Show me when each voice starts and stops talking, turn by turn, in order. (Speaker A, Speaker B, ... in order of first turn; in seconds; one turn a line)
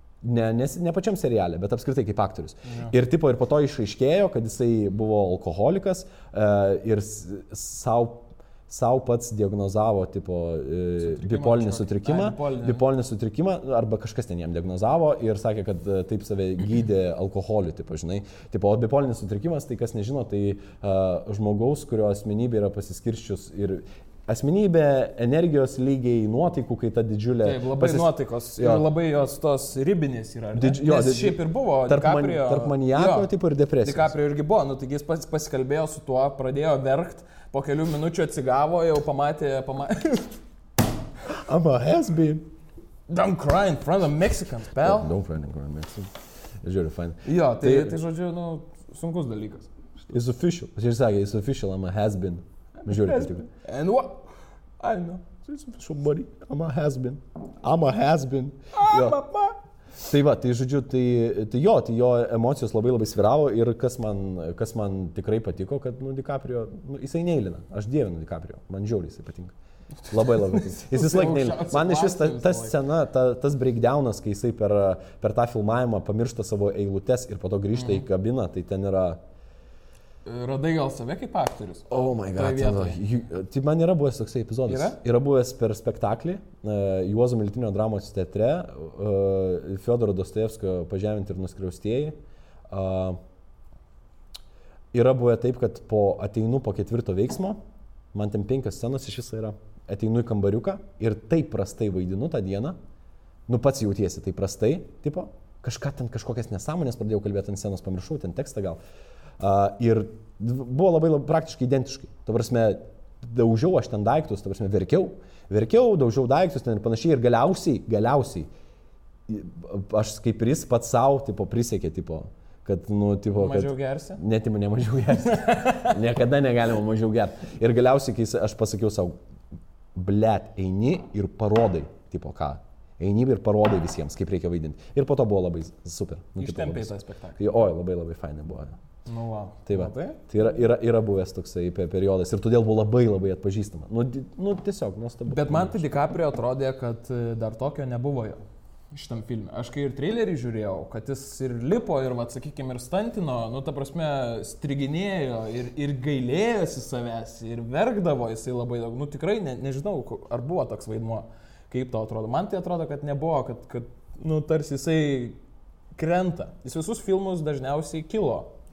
Speaker A: 0.2-28.9
Speaker B: 2.6-2.9
Speaker B: 11.0-12.9
Speaker B: 27.4-33.3
Speaker A: 30.5-34.1
Speaker B: 33.8-40.4
Speaker A: 41.3-42.5
Speaker B: 43.1-45.1
Speaker A: 44.8-48.0
Speaker B: 47.2-50.1
Speaker A: 50.1-53.5
Speaker B: 52.9-54.3
Speaker B: 54.8-55.5
Speaker A: 55.5-59.2
Speaker B: 58.7-59.6
Speaker A: 60.0-69.5
Speaker A: 70.1-79.2
Speaker B: 70.1-72.8
Speaker B: 77.8-78.0
Speaker B: 80.2-83.0
Speaker A: 81.9-92.2
Speaker B: 84.7-85.0
Speaker A: 92.7-93.2
Speaker A: 94.9-97.6
Speaker A: 98.1-102.8
Speaker A: 103.5-108.8
Speaker A: 109.4-118.5
Speaker A: 119.3-129.2
Speaker B: 123.3-124.2
Speaker B: 125.2-126.0
Speaker A: 129.9-138.8
Speaker B: 136.4-137.5
Speaker B: 139.1-140.2
Speaker A: 139.7-145.8
Speaker B: 145.3-148.4
Speaker B: 148.9-165.4
Speaker B: 166.0-168.5